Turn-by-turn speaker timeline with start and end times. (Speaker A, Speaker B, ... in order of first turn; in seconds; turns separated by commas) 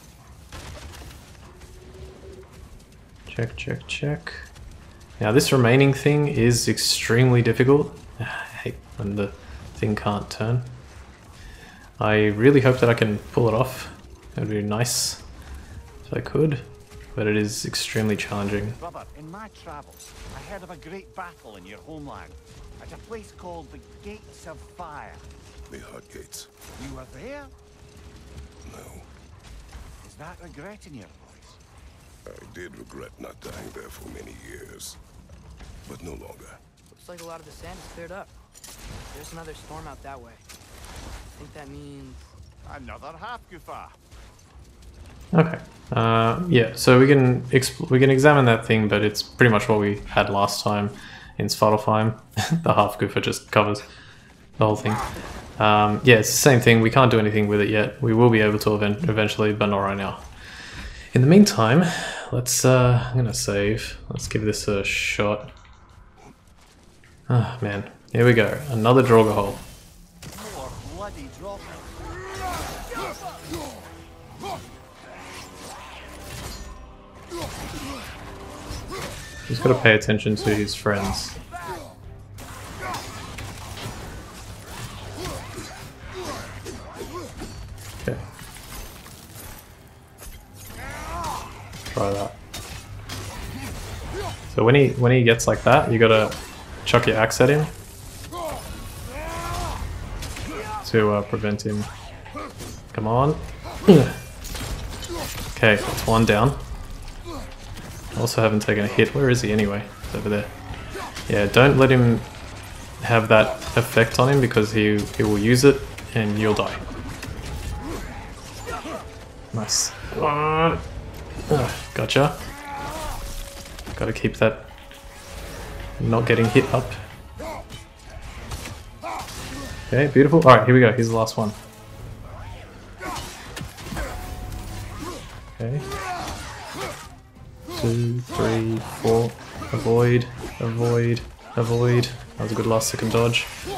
Speaker A: 3.3-4.5, Speaker A: 5.2-10.8, Speaker A: 12.0-15.2, Speaker A: 16.1-18.8, Speaker B: 18.8-25.3, Speaker C: 25.7-26.5, Speaker B: 26.8-27.5, Speaker C: 28.6-29.1, Speaker B: 30.0-31.6, Speaker C: 32.3-35.0, Speaker C: 35.9-36.6, Speaker D: 36.9-38.3, Speaker D: 39.1-40.4, Speaker D: 41.4-42.4, Speaker B: 42.7-44.0, Speaker A: 45.3-53.9, Speaker A: 54.6-55.1, Speaker A: 55.6-60.3, Speaker A: 61.1-65.5, Speaker A: 67.3-69.7, Speaker B: 70.3-72.0, Speaker A: 79.5-81.4, Speaker A: 91.9-92.3, Speaker A: 94.5-97.7, Speaker A: 100.8-101.9, Speaker A: 102.9-104.2, Speaker A: 105.5-106.6, Speaker A: 108.1-110.5, Speaker A: 111.3-112.3, Speaker A: 113.0-116.8, Speaker A: 119.5-120.8, Speaker A: 121.5-122.4, Speaker A: 124.0-124.7, Speaker A: 126.0-127.0, Speaker A: 129.9-131.6, Speaker A: 135.5-135.9, Speaker A: 137.7-143.5